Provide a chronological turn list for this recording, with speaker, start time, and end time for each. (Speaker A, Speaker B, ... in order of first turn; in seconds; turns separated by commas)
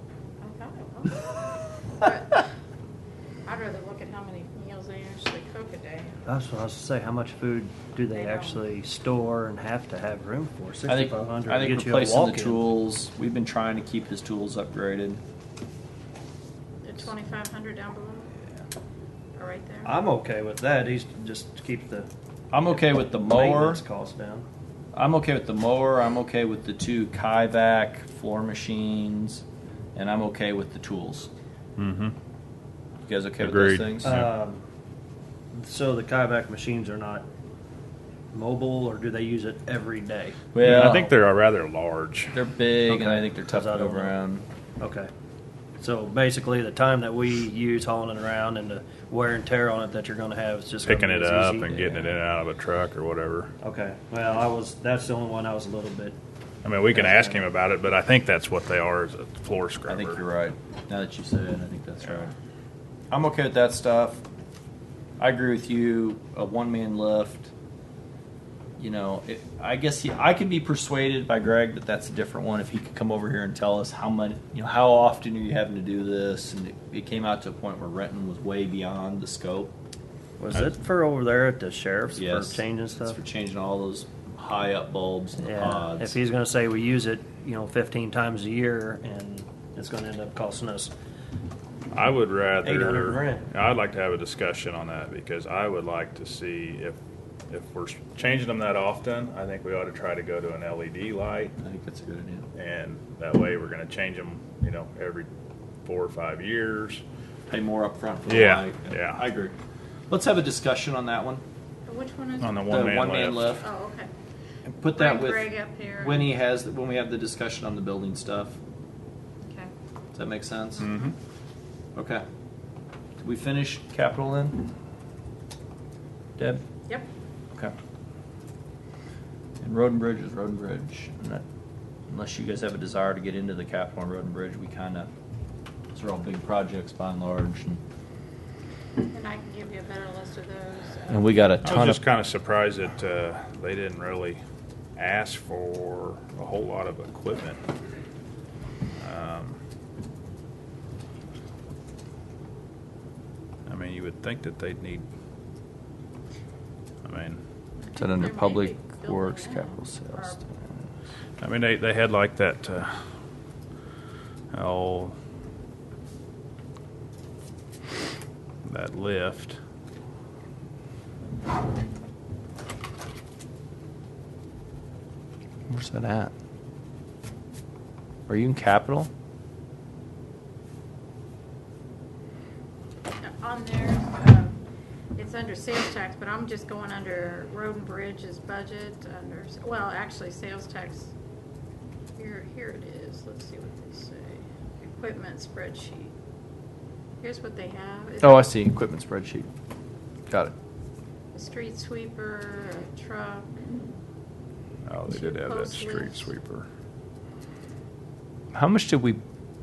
Speaker A: 0.4-1.4, Speaker A: 1.9-2.5, Speaker A: 3.5-6.2, Speaker B: 6.3-12.7, Speaker A: 8.1-8.6, Speaker C: 10.9-15.2, Speaker A: 16.8-18.3, Speaker A: 19.4-20.0, Speaker B: 19.9-22.1, Speaker C: 22.5-23.8, Speaker B: 22.9-24.5, Speaker C: 24.9-29.4, Speaker C: 29.9-31.3, Speaker D: 31.8-32.1, Speaker C: 33.0-34.2, Speaker D: 33.4-34.3, Speaker B: 34.0-34.6, Speaker B: 35.5-37.2, Speaker B: 38.3-40.5, Speaker C: 40.5-41.1, Speaker D: 40.6-42.4, Speaker C: 42.3-44.5, Speaker B: 42.9-44.2, Speaker B: 44.8-45.1, Speaker B: 45.8-52.2, Speaker D: 50.8-53.5, Speaker B: 53.6-56.2, Speaker D: 56.6-60.2, Speaker B: 56.9-57.5, Speaker C: 59.9-62.3, Speaker C: 63.1-64.2, Speaker C: 65.2-67.5, Speaker C: 68.8-79.7, Speaker B: 80.4-83.2, Speaker C: 82.2-86.2, Speaker B: 85.4-90.9, Speaker D: 91.9-97.0, Speaker B: 92.6-93.5, Speaker D: 97.5-101.5, Speaker C: 101.6-102.5, Speaker D: 102.5-105.3, Speaker D: 105.8-107.0, Speaker C: 107.5-109.5, Speaker D: 108.3-109.2, Speaker C: 110.1-111.4, Speaker A: 111.9-112.8, Speaker D: 112.4-113.6, Speaker C: 112.7-113.7, Speaker A: 113.6-114.1, Speaker C: 114.7-118.6, Speaker A: 114.9-116.4, Speaker A: 119.5-119.7, Speaker C: 120.1-120.9, Speaker A: 120.8-121.1, Speaker D: 120.8-121.2, Speaker C: 122.0-122.2, Speaker C: 123.2-124.7, Speaker C: 126.4-126.6, Speaker C: 129.6-131.4, Speaker C: 132.1-135.1, Speaker C: 135.9-137.8, Speaker A: 139.0-141.6, Speaker C: 141.1-142.0, Speaker D: 141.6-144.4, Speaker D: 145.0-147.6, Speaker D: 149.0-149.6, Speaker D: 153.7-155.1, Speaker D: 157.1-157.4, Speaker A: 157.8-160.5, Speaker C: 158.0-160.6, Speaker D: 161.4-162.9, Speaker D: 164.5-165.2, Speaker D: 168.7-169.6, Speaker C: 175.7-176.3, Speaker C: 178.3-179.1, Speaker A: 183.2-184.6, Speaker A: 185.2-191.1, Speaker A: 192.2-196.1, Speaker A: 197.2-198.5, Speaker C: 198.2-199.5, Speaker A: 201.3-203.6, Speaker D: 204.8-206.7, Speaker A: 205.1-206.3, Speaker C: 208.5-209.2